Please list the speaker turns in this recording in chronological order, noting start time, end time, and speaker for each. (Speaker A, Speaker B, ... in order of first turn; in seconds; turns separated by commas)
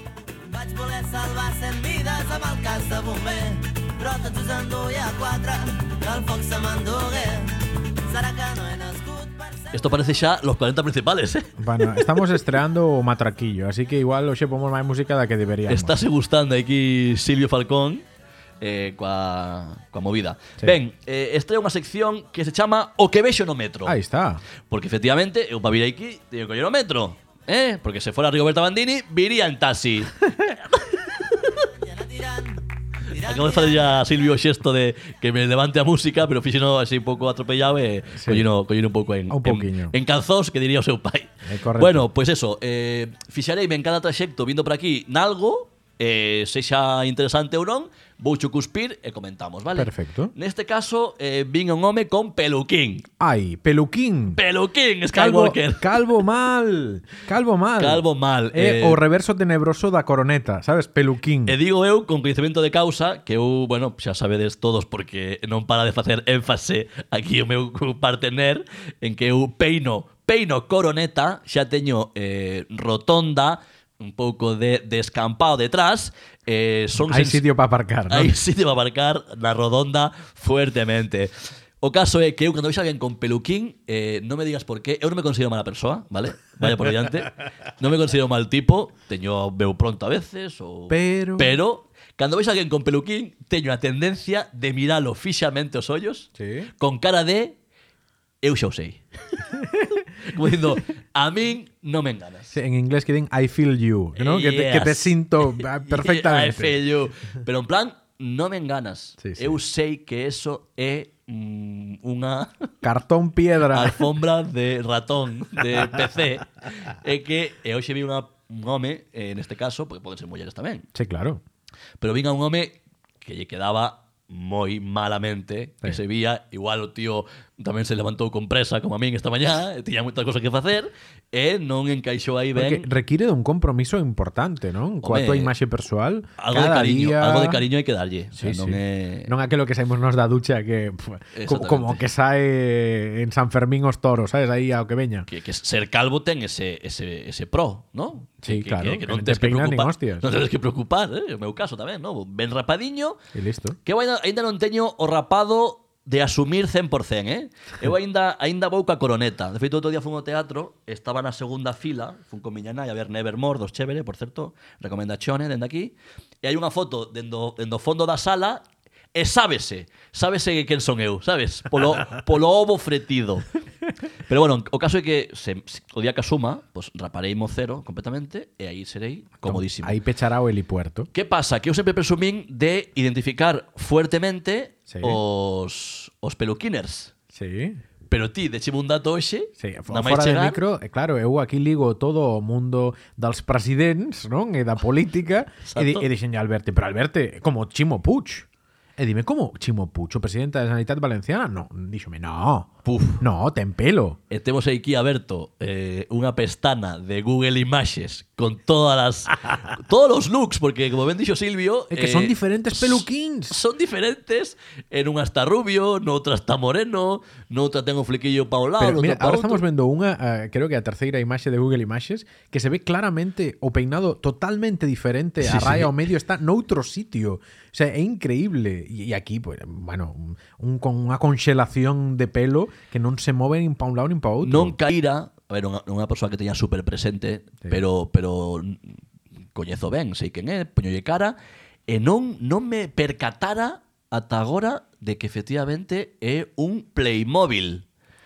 Speaker A: 0.4-10.1, Speaker B: 9.7-12.3, Speaker C: 11.6-16.0, Speaker B: 15.7-18.1, Speaker B: 18.6-24.0, Speaker C: 23.9-24.4, Speaker B: 24.7-30.3, Speaker A: 31.5-34.0, Speaker B: 33.2-53.0, Speaker C: 38.1-38.5, Speaker C: 39.3-40.0, Speaker C: 41.5-42.1, Speaker C: 49.7-50.3, Speaker C: 53.2-54.4, Speaker B: 54.4-56.2, Speaker C: 55.1-61.6, Speaker B: 57.8-59.0, Speaker B: 61.5-77.5, Speaker C: 77.0-78.4, Speaker B: 78.1-97.6, Speaker C: 90.9-91.6, Speaker C: 96.4-96.7, Speaker B: 98.4-99.0, Speaker C: 99.5-100.0, Speaker B: 100.2-102.5, Speaker C: 102.5-106.8, Speaker B: 104.2-112.7, Speaker C: 109.2-109.6, Speaker C: 112.8-114.0, Speaker B: 113.7-120.9, Speaker C: 120.9-121.4, Speaker B: 122.0-132.9, Speaker C: 132.6-137.6, Speaker B: 135.0-135.5, Speaker B: 136.4-139.3, Speaker C: 138.3-145.3, Speaker B: 141.3-142.0, Speaker B: 145.3-153.2, Speaker C: 148.4-150.3, Speaker C: 153.3-153.8, Speaker B: 153.8-173.5, Speaker B: 174.3-180.0, Speaker C: 179.4-181.1, Speaker B: 181.1-187.1, Speaker C: 184.9-185.2, Speaker C: 187.3-187.8, Speaker B: 188.1-190.6, Speaker C: 189.6-204.2, Speaker B: 195.7-196.1, Speaker B: 202.8-203.2, Speaker B: 204.3-219.6, Speaker C: 211.9-213.6, Speaker C: 218.8-234.8, Speaker B: 225.4-225.9, Speaker B: 234.4-239.0, Speaker B: 239.5-241.4, Speaker B: 241.9-247.8